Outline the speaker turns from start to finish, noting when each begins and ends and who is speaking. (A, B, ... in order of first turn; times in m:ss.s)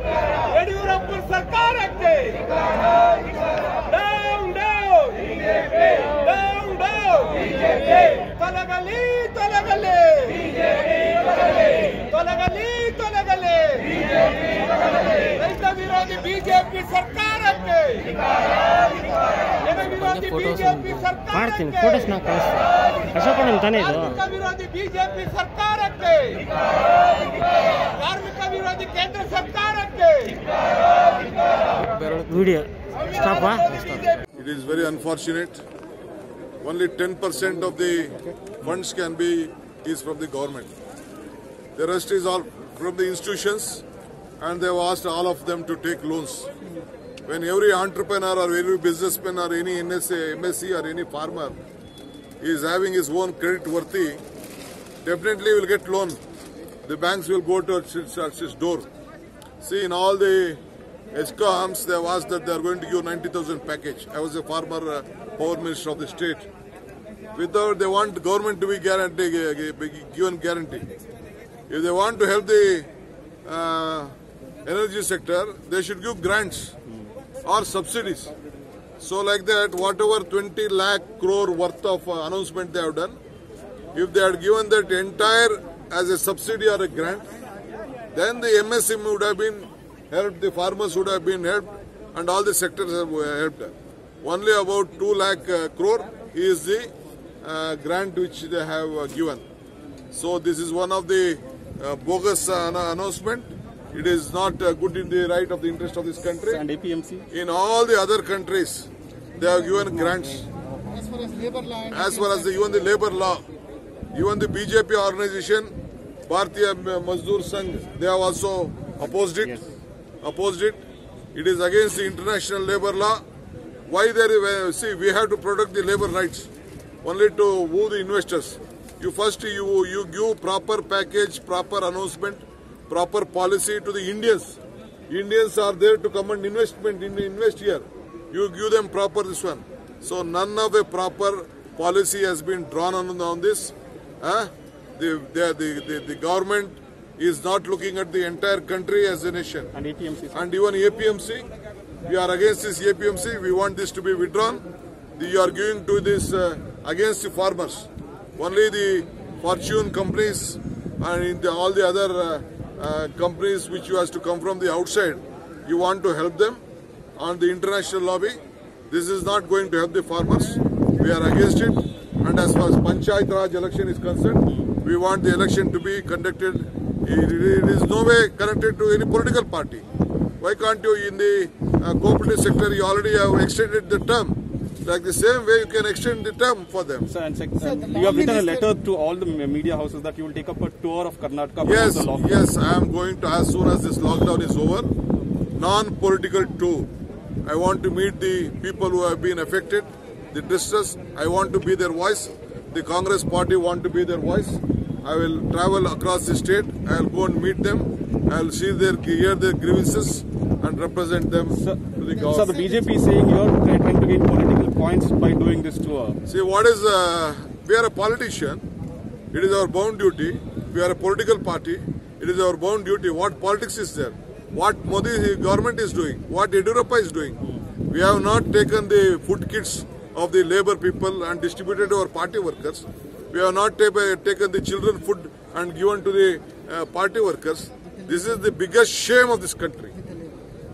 0:00.4-0:03.0 A
0:03.8-0:10.6 A
0:11.9-0:14.1 A
0:14.8-0:18.2 A
0:19.6-0:21.3 A
0:21.2-0:24.2 B
0:24.1-0:26.5 A
0:28.0-0:30.5 A
0:32.2-0:34.1 B
0:34.3-0:35.6 C
0:36.6-0:40.7 C
0:41.8-0:43.8 C
0:44.4-0:46.5 C
0:47.2-0:51.6 C
0:52.4-0:54.2 C
0:55.0-0:56.2 C
0:56.8-0:58.9 C
0:59.6-1:00.6 C
1:01.1-1:06.5 C
1:07.3-1:10.9 C
1:11.7-1:12.9 C
1:13.4-1:14.1 C
1:14.6-1:16.7 C
1:17.4-1:18.3 C
1:19.0-1:23.2 C
1:23.9-1:27.3 C
1:28.1-1:36.9 C
1:37.4-1:39.4 C
1:40.1-1:46.6 C
1:46.5-1:47.2 D
1:47.3-1:50.5 C
1:50.8-1:52.6 E
1:51.9-1:53.4 C
1:54.1-1:55.7 C
1:56.3-1:59.6 C
2:00.2-2:00.8 C
2:01.3-2:03.2 C
2:03.9-2:06.5 C
2:07.0-2:14.6 C
2:15.1-2:29.7 C
2:29.7-2:30.4 D
2:30.3-2:31.5 C
2:32.0-2:46.6 C
2:47.2-2:59.8 C
3:00.4-3:07.1 C
3:07.0-3:12.4 D
3:07.6-3:08.7 E
3:11.6-3:14.9 C
3:15.6-3:16.9 C
3:17.4-3:32.6 C
3:31.5-3:36.2 D
3:32.2-3:32.9 E
3:36.2-3:38.6 C
3:39.3-3:59.9 C
3:57.9-3:58.4 E
3:59.9-4:00.4 E